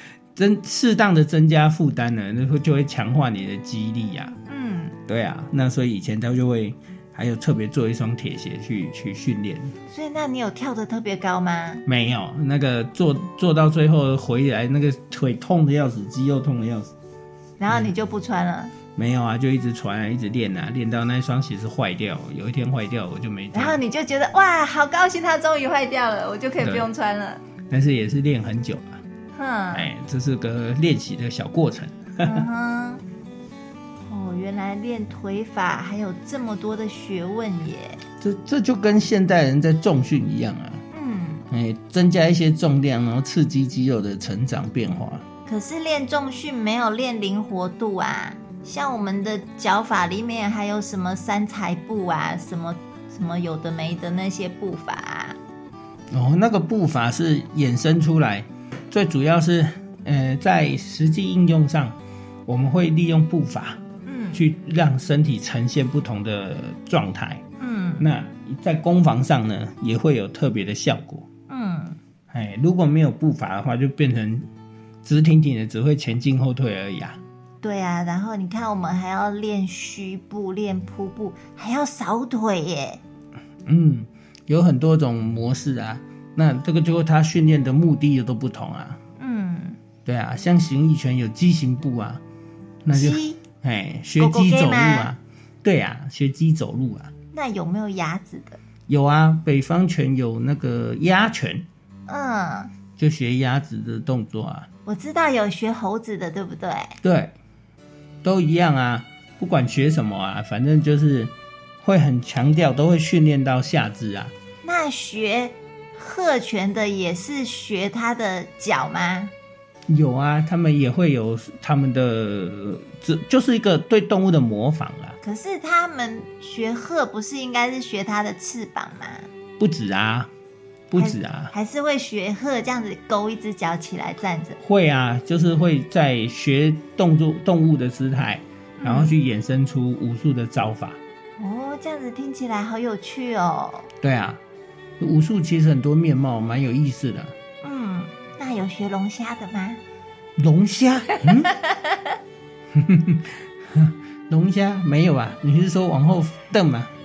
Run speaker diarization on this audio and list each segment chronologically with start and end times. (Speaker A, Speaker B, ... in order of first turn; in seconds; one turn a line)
Speaker A: 0.3-4.3
Speaker B: 4.5-4.9
Speaker A: 5.1-9.7
Speaker B: 9.9-11.8
Speaker A: 11.8-16.9
Speaker B: 17.6-18.7
Speaker A: 18.9-23.8
Speaker B: 23.5-27.4
Speaker A: 26.6-26.9
Speaker A: 27.7-29.0
Speaker B: 29.3-29.9
Speaker A: 29.7-32.5
Speaker B: 32.2-33.0
Speaker B: 34.1-38.0
Speaker A: 38.2-40.8
Speaker B: 40.9-41.5
Speaker A: 41.5-45.2
Speaker B: 45.5-55.4
Speaker A: 56.1-63.8
Speaker B: 64.0-64.4
Speaker A: 64.3-67.4
Speaker B: 67.6-68.0
Speaker A: 68.0-71.3
Speaker B: 71.5-72.0
Speaker A: 72.3-74.5
Speaker A: 75.0-77.2
Speaker B: 77.6-83.0
Speaker A: 83.7-89.0
Speaker B: 89.2-89.8
Speaker A: 90.0-92.2
Speaker A: 92.8-97.1
Speaker B: 92.9-93.4
Speaker B: 94.2-95.1
Speaker B: 97.3-98.6
Speaker A: 98.9-101.7
Speaker B: 102.1-102.7
Speaker A: 103.0-104.7
Speaker B: 104.8-106.9
Speaker A: 107.0-107.3
Speaker A: 108.2-114.3
Speaker B: 114.6-119.3
Speaker A: 119.9-125.2
Speaker B: 125.2-129.3
Speaker A: 129.6-130.3
Speaker A: 130.9-131.5
Speaker B: 130.9-134.6
Speaker A: 134.6-141.0
Speaker B: 138.8-139.1
Speaker B: 141.4-143.9
Speaker A: 144.0-144.4
Speaker A: 145.0-147.3
Speaker B: 147.6-149.8
Speaker A: 150.4-151.5
Speaker B: 151.2-152.2
Speaker A: 152.7-156.9